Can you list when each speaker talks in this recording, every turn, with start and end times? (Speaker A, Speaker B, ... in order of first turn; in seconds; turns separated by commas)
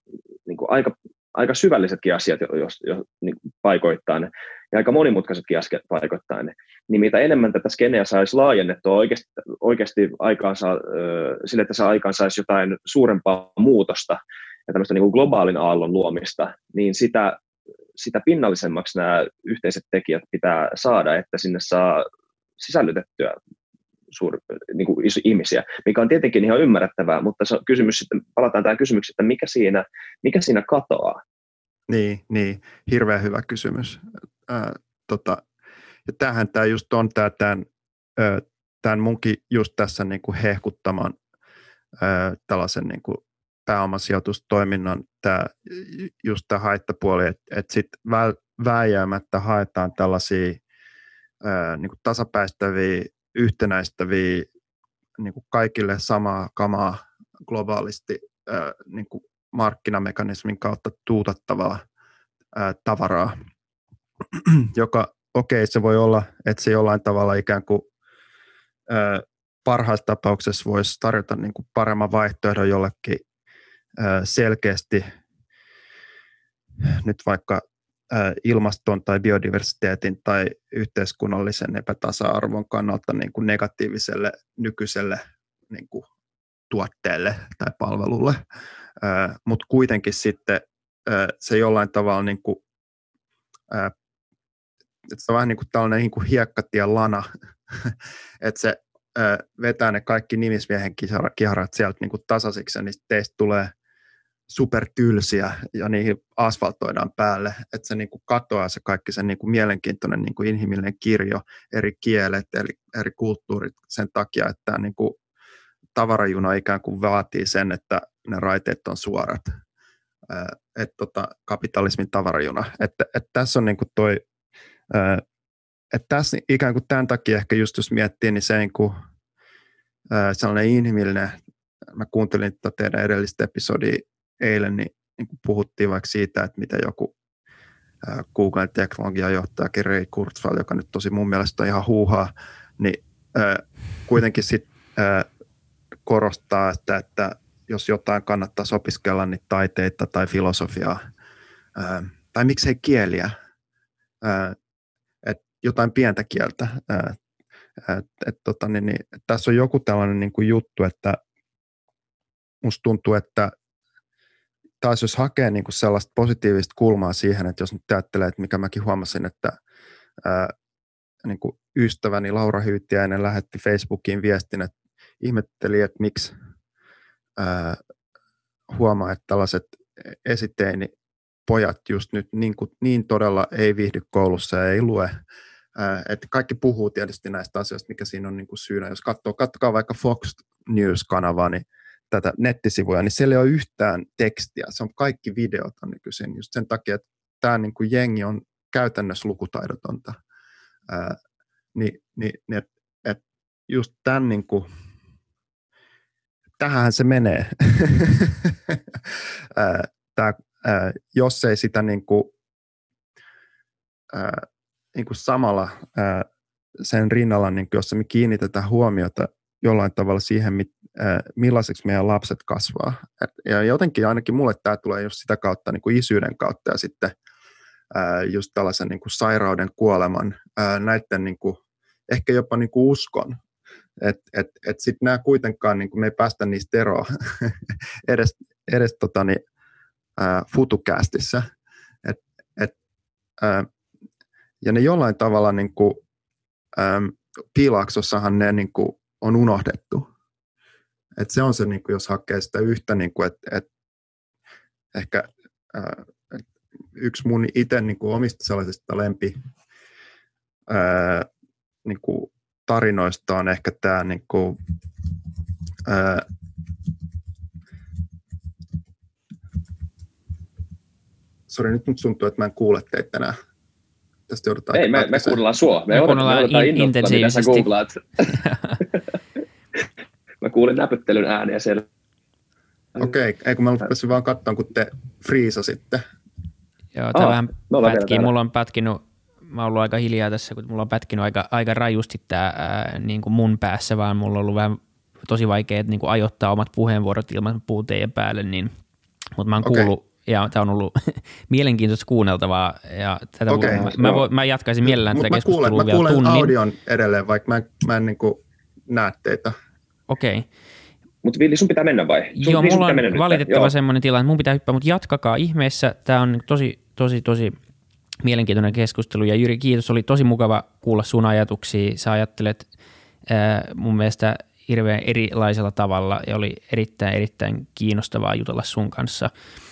Speaker A: 0.5-17.4, Speaker A: 18.0-22.1, Speaker A: 22.6-23.4, Speaker A: 24.1-31.2, Speaker B: 31.9-35.4, Speaker B: 36.1-37.6, Speaker B: 38.2-41.1, Speaker B: 42.0-50.6, Speaker B: 51.4-54.5, Speaker B: 55.2-61.8, Speaker B: 62.5-63.4, Speaker B: 64.3-67.8, Speaker B: 68.9-73.2, Speaker B: 74.0-75.1, Speaker B: 76.9-86.1, Speaker B: 86.7-88.4, Speaker B: 89.0-92.6, Speaker B: 95.1-103.7, Speaker B: 104.5-115.2, Speaker B: 116.0-119.5, Speaker B: 120.3-124.2, Speaker B: 124.9-125.2, Speaker B: 125.9-128.9, Speaker B: 130.1-131.4, Speaker B: 131.9-137.1, Speaker B: 138.0-145.3, Speaker B: 146.1-151.0, Speaker B: 151.8-153.3, Speaker B: 154.2-154.6, Speaker B: 155.2-157.2, Speaker B: 157.8-161.2, Speaker B: 162.6-163.5, Speaker B: 164.8-169.6, Speaker B: 170.2-170.5, Speaker B: 171.2-176.3, Speaker B: 177.4-177.8, Speaker B: 178.7-180.9, Speaker B: 181.5-185.1, Speaker B: 185.8-200.2, Speaker B: 200.9-201.2, Speaker B: 201.8-204.7, Speaker B: 206.6-212.3, Speaker B: 214.1-216.3, Speaker B: 216.8-227.1, Speaker B: 227.9-231.6, Speaker B: 232.1-233.4, Speaker B: 234.0-239.4, Speaker B: 240.2-241.5, Speaker B: 242.0-242.7, Speaker B: 243.4-243.7, Speaker B: 244.6-246.0, Speaker B: 246.8-250.1, Speaker B: 251.2-253.7, Speaker B: 254.9-256.4, Speaker B: 257.0-259.4, Speaker B: 260.7-261.3, Speaker B: 261.9-264.6, Speaker B: 265.9-266.3, Speaker B: 271.5-273.4, Speaker B: 274.3-275.4, Speaker A: 274.7-279.2, Speaker C: 275.9-277.7, Speaker C: 278.3-278.8, Speaker A: 280.4-281.9, Speaker B: 283.0-286.0, Speaker C: 286.9-298.7, Speaker A: 287.1-288.3, Speaker C: 299.4-306.5, Speaker B: 299.6-299.9, Speaker B: 303.5-304.1, Speaker A: 303.6-304.2, Speaker B: 304.9-309.6, Speaker C: 310.1-310.5, Speaker A: 311.2-313.7, Speaker C: 312.4-317.6, Speaker C: 318.2-322.7, Speaker C: 323.3-329.3